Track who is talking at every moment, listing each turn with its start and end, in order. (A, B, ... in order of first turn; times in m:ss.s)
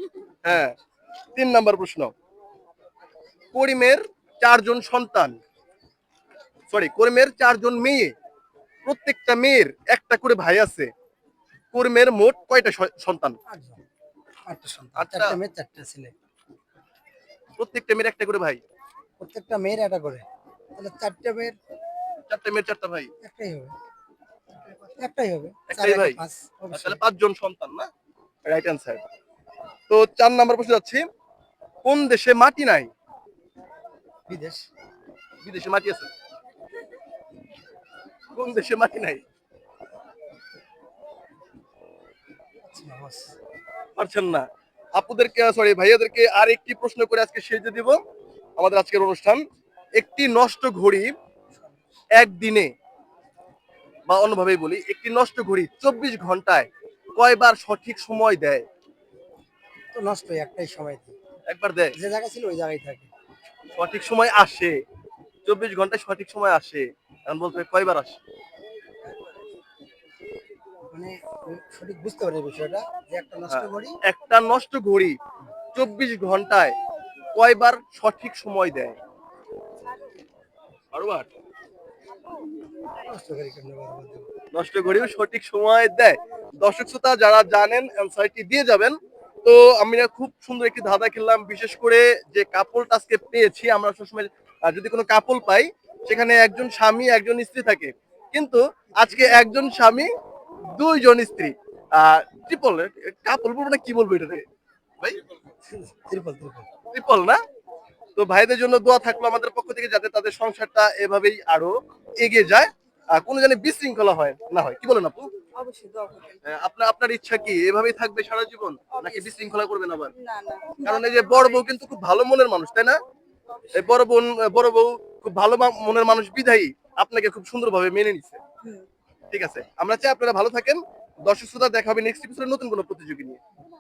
0:00.4-0:00.8 A
0:01.4-0:02.1 A
0:03.5-0:05.4 A
0:06.7-0:08.1 A
0:08.8-0:10.9 A
0:11.7-0:13.4 A
0:13.5-0:13.8 B
0:14.5-0:16.1 B
0:15.0-0:15.4 A
0:17.6-0:18.6 A
0:19.2-0:20.2 B
0:20.8-0:21.6 B
0:22.3-0:23.1 A
0:23.2-0:23.7 B
0:24.9-0:27.0 B
0:25.7-0:26.2 A
0:26.7-0:27.9 A
0:28.4-0:29.0 A
0:29.9-0:31.1 A
0:31.8-0:32.9 A
0:34.3-0:34.6 B
0:35.4-0:36.1 A
0:38.3-0:39.2 A
0:42.7-0:43.4 B
0:44.0-0:48.0 A
0:48.6-0:49.4 A
0:50.0-0:51.1 A
0:52.2-0:52.7 A
0:54.1-0:58.7 A
0:59.9-1:01.2 B
1:01.5-1:01.9 A
1:02.0-1:03.1 B
1:03.8-1:04.8 A
1:05.5-1:08.2 A
1:10.9-1:14.0 B
1:13.5-1:15.2 A
1:15.7-1:16.8 A
1:17.4-1:19.0 A
1:20.9-1:21.3 A
1:23.0-1:24.3 B
1:24.5-1:40.1 A
1:40.7-1:44.4 A
1:45.7-1:46.7 B
1:46.9-1:47.4 A
1:48.2-1:55.3 A
1:55.6-1:56.4 C
1:56.4-2:00.1 A
1:58.9-1:59.6 C
2:00.2-2:01.7 C
2:00.8-2:03.0 A
2:03.7-2:08.4 A
2:09.3-2:13.4 A